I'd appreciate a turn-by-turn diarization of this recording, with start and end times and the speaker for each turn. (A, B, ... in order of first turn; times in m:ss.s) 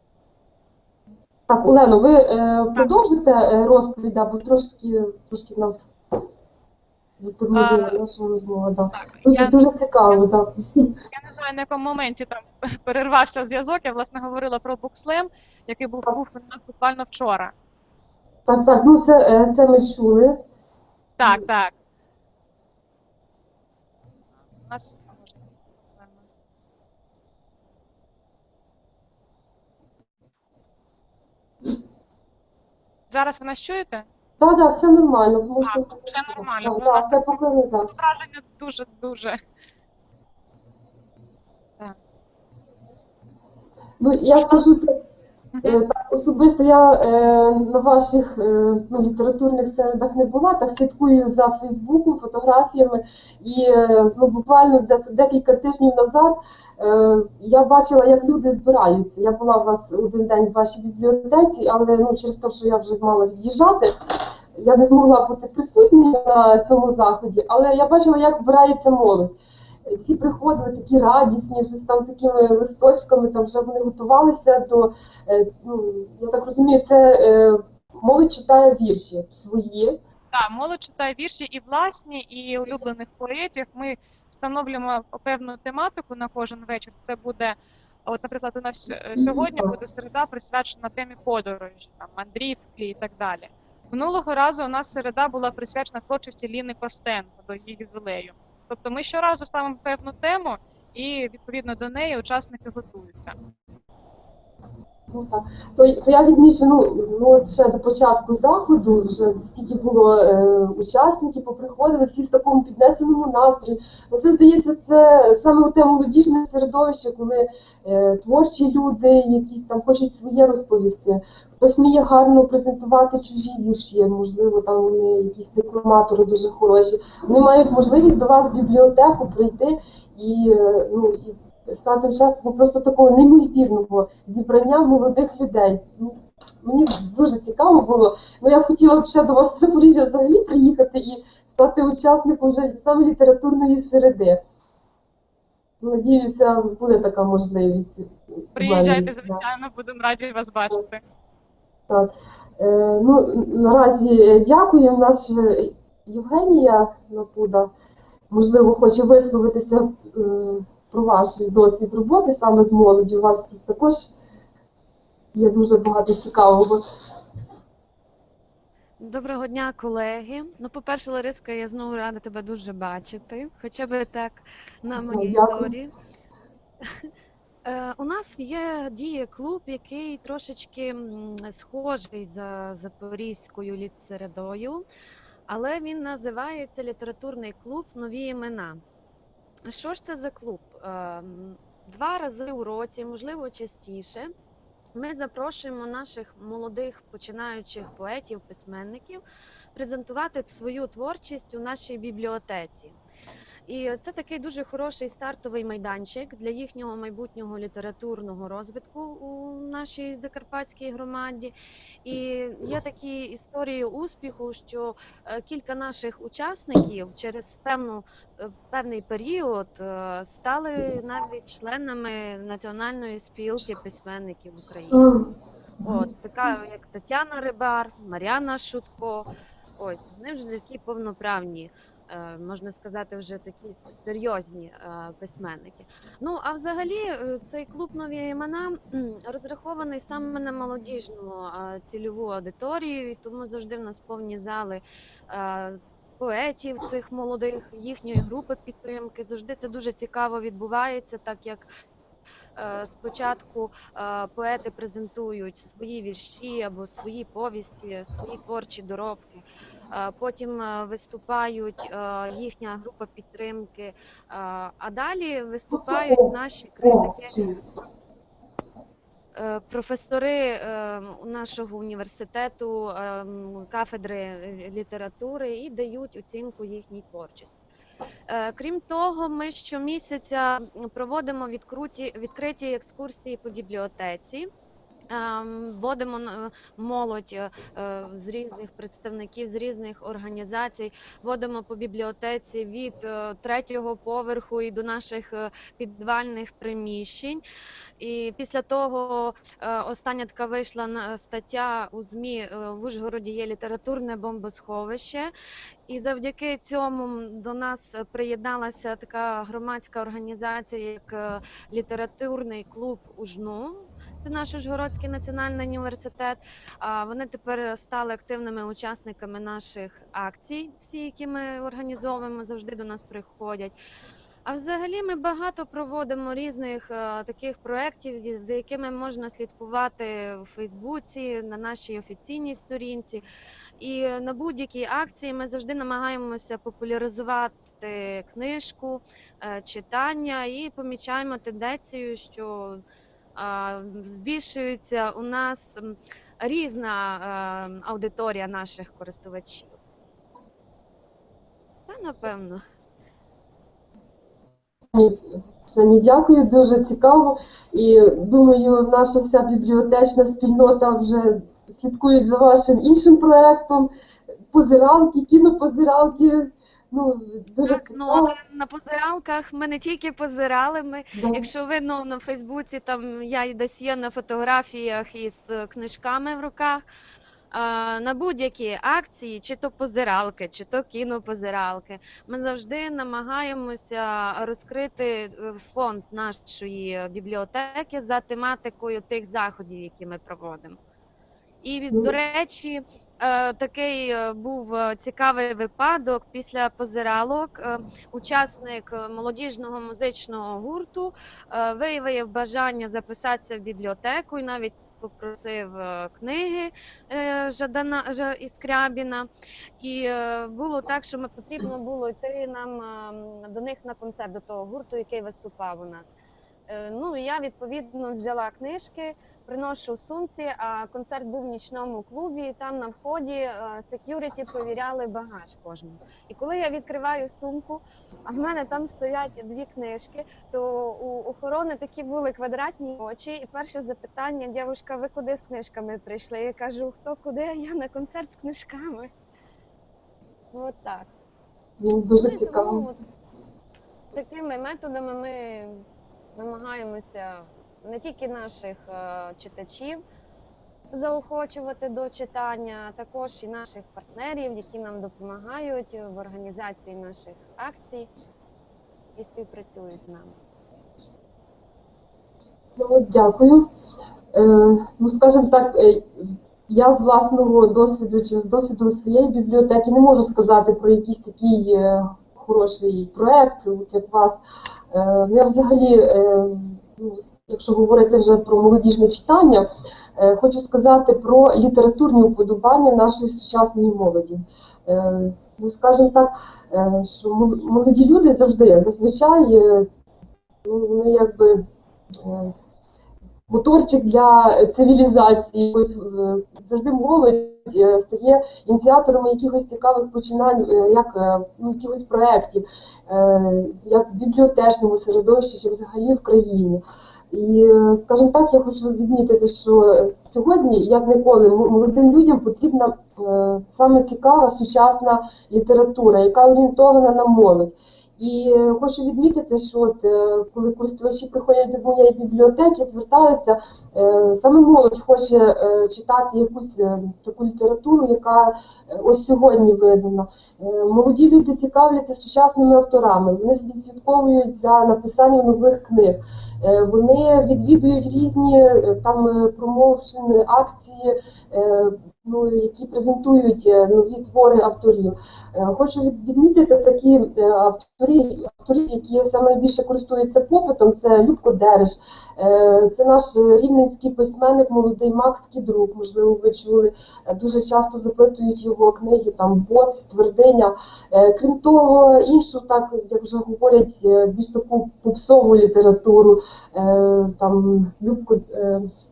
0:01.5-0:05.9 A
0:07.2-0:10.9 A
0:07.5-0:08.0 B
0:08.9-0:09.6 B
0:11.1-0:17.5 B
0:18.4-0:20.4 A
0:21.2-0:21.7 B
0:24.6-0:26.2 B
0:33.1-0:34.1 B
0:34.4-0:37.9 A
0:35.6-0:39.4 B
0:44.0-0:45.0 A
0:44.3-0:44.7 B
0:45.5-0:45.8 B
0:45.6-1:03.9 A
1:04.5-1:20.0 A
1:20.3-1:43.3 B
1:29.2-1:29.7 A
1:45.1-2:24.4 A
2:25.8-2:29.4 A
2:28.6-2:31.0 B
2:31.9-2:37.7 A
2:38.3-2:44.1 A
2:45.3-2:46.8 A
2:49.0-2:55.9 C
2:55.0-2:55.7 A
2:56.8-2:57.1 C
2:57.6-3:04.8 C
3:05.5-3:08.8 C
3:09.7-3:14.3 C
3:14.9-3:19.2 C
3:19.7-3:23.0 C
3:23.7-3:45.0 C
3:44.9-3:45.3 A
3:45.8-3:49.3 C
3:49.8-4:11.6 C
4:12.6-4:27.4 C
4:25.7-4:27.6 A
4:29.3-4:37.6 C
4:38.3-4:44.5 C
4:45.1-4:57.4 C
4:58.0-5:05.3 C
5:05.9-5:23.8 C
5:24.4-5:33.2 C
5:33.8-5:42.8 C
5:43.4-5:49.8 C
5:51.9-5:52.6 C
5:54.9-6:03.9 A
6:04.5-6:08.3 A
6:07.6-6:16.8 C
6:11.1-6:11.4 A
6:17.5-6:30.8 C
6:31.6-6:49.3 C
6:49.8-6:56.1 C
6:56.7-7:19.1 C
7:20.5-7:21.1 C
7:21.8-7:22.8 A
7:22.2-7:23.0 C
7:24.1-7:25.8 C
7:26.3-7:30.0 C
7:30.9-7:38.1 C
7:39.2-7:40.4 C
7:42.8-7:43.7 A
7:44.3-7:54.4 A
7:54.9-8:09.9 A
8:10.6-8:11.6 A
8:12.2-8:12.5 A
8:13.5-9:28.9 A